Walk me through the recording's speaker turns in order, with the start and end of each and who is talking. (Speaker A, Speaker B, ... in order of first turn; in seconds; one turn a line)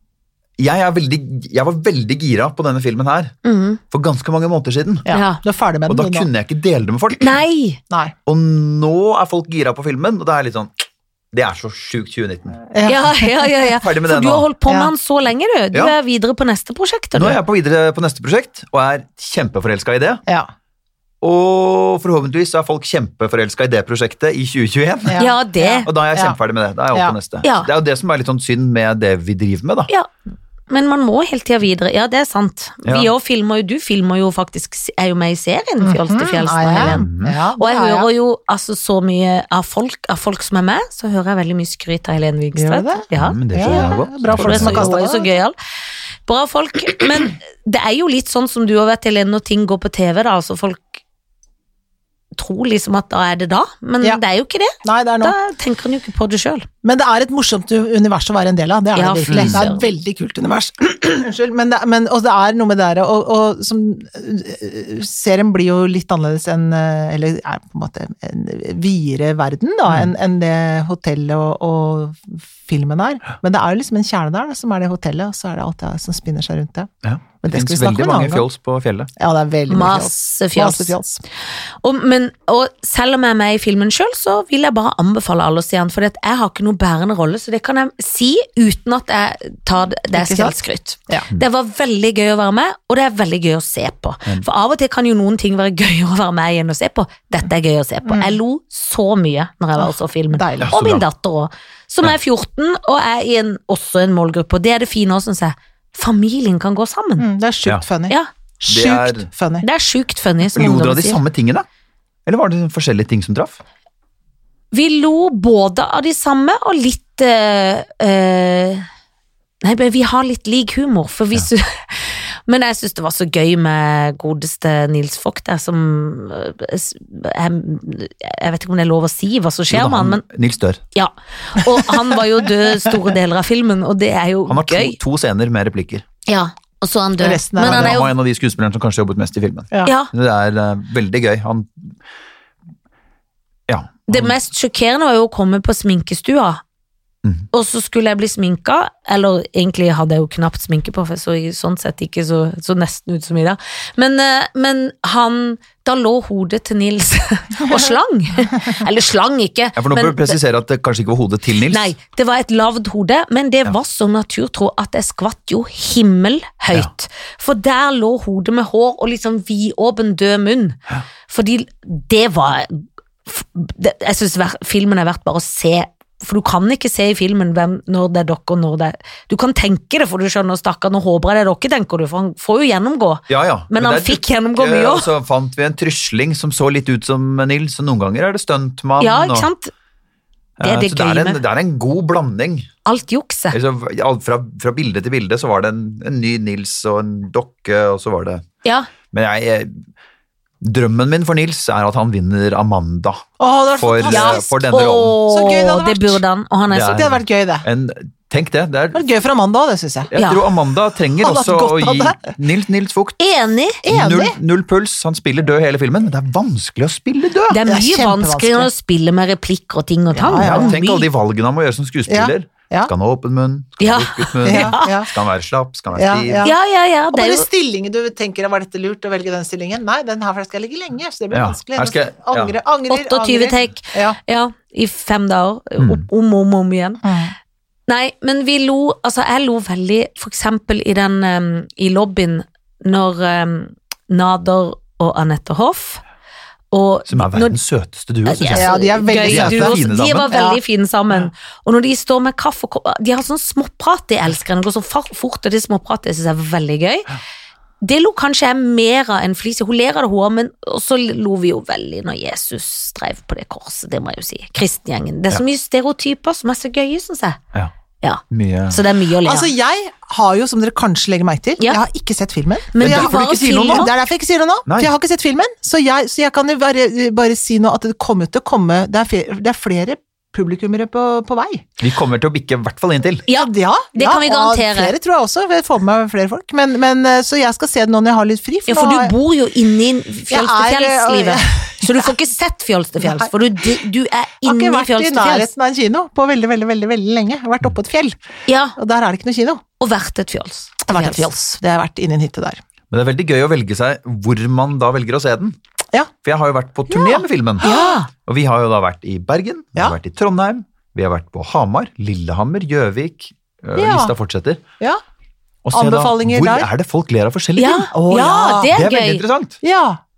Speaker A: 0.6-3.4
Speaker B: 3.4-3.8
Speaker A: 3.9-5.1
Speaker C: 5.1-6.3
Speaker B: 5.1-5.4
Speaker A: 5.9-7.4
Speaker B: 7.2-7.8
Speaker C: 7.9-8.2
Speaker A: 8.3-12.6
Speaker C: 12.7-13.3
Speaker B: 12.8-17.4
Speaker A: 13.8-14.5
Speaker A: 17.1-20.2
Speaker A: 21.2-25.2
Speaker C: 25.1-26.4
Speaker B: 25.2-25.9
Speaker A: 25.8-29.9
Speaker B: 27.4-27.7
Speaker B: 30.7-37.1
Speaker A: 32.8-33.1
Speaker C: 35.8-38.1
Speaker A: 36.8-37.4
Speaker B: 37.6-45.5
Speaker C: 42.5-45.4
Speaker A: 43.1-44.9
Speaker B: 46.3-50.8
Speaker B: 52.4-56.7
Speaker C: 54.8-55.4
Speaker C: 56.8-78.5
Speaker B: 59.0-59.9
Speaker A: 59.3-59.6
Speaker A: 77.0-79.1
Speaker C: 79.2-81.2
Speaker B: 79.7-81.0
Speaker B: 81.8-107.3
Speaker C: 90.1-90.6
Speaker C: 98.1-98.3
Speaker C: 99.8-100.7
Speaker A: 100.6-101.0
Speaker C: 107.2-109.7
Speaker A: 108.7-109.3
Speaker B: 109.6-111.2
Speaker A: 110.5-111.7
Speaker A: 112.3-113.6
Speaker B: 114.7-118.9
Speaker B: 119.6-130.2
Speaker A: 129.7-130.8
Speaker B: 130.9-135.0
Speaker A: 134.5-136.1
Speaker B: 136.3-138.1
Speaker C: 137.2-138.0
Speaker A: 137.6-142.0
Speaker B: 139.8-140.1
Speaker A: 143.7-144.4
Speaker B: 144.1-146.6
Speaker B: 147.5-160.4
Speaker A: 159.8-161.9
Speaker B: 161.7-185.1
Speaker A: 183.3-189.5
Speaker B: 189.0-189.7
Speaker A: 190.6-192.7
Speaker B: 190.6-191.4
Speaker B: 192.8-193.6
Speaker A: 193.5-198.4
Speaker B: 198.6-198.9
Speaker A: 199.1-199.9
Speaker A: 200.6-205.2
Speaker C: 203.4-204.5
Speaker B: 204.1-207.0
Speaker C: 205.3-206.2
Speaker A: 206.7-209.1
Speaker C: 206.8-207.7
Speaker C: 208.9-210.1
Speaker A: 210.1-213.2
Speaker B: 210.2-210.5
Speaker C: 211.2-212.3
Speaker B: 213.2-213.8
Speaker C: 213.8-214.4
Speaker A: 213.8-217.6
Speaker B: 217.5-221.1
Speaker C: 217.7-218.7
Speaker C: 220.1-220.8
Speaker A: 220.4-226.5
Speaker C: 222.1-222.9
Speaker B: 223.8-224.9
Speaker C: 224.4-225.1
Speaker C: 225.9-226.6
Speaker B: 226.4-227.5
Speaker C: 227.1-234.2
Speaker A: 231.3-232.6
Speaker B: 232.9-237.0
Speaker A: 235.8-236.0
Speaker C: 237.0-237.3
Speaker B: 237.9-246.0
Speaker B: 246.7-247.6
Speaker A: 247.1-250.3
Speaker B: 248.2-257.1
Speaker C: 248.4-249.8
Speaker C: 250.3-250.6
Speaker B: 257.8-267.4
Speaker B: 268.0-269.5
Speaker A: 268.3-268.8
Speaker C: 269.2-281.6
Speaker B: 272.7-273.9
Speaker A: 272.8-273.9
Speaker A: 274.7-274.9
Speaker A: 281.8-283.2
Speaker B: 283.3-284.9
Speaker C: 283.3-289.1
Speaker B: 288.7-295.5
Speaker C: 290.3-292.1
Speaker C: 293.0-293.8
Speaker C: 294.4-298.2
Speaker B: 298.5-298.8
Speaker C: 298.8-299.6
Speaker B: 299.8-301.3
Speaker C: 300.9-302.6
Speaker A: 302.9-305.6
Speaker A: 306.2-307.7
Speaker C: 306.9-308.0
Speaker B: 307.6-308.1
Speaker A: 308.2-314.6
Speaker C: 313.8-314.1
Speaker A: 315.6-317.9
Speaker C: 315.7-316.7
Speaker B: 317.6-319.2
Speaker C: 317.9-318.7
Speaker A: 318.7-319.6
Speaker C: 319.6-320.0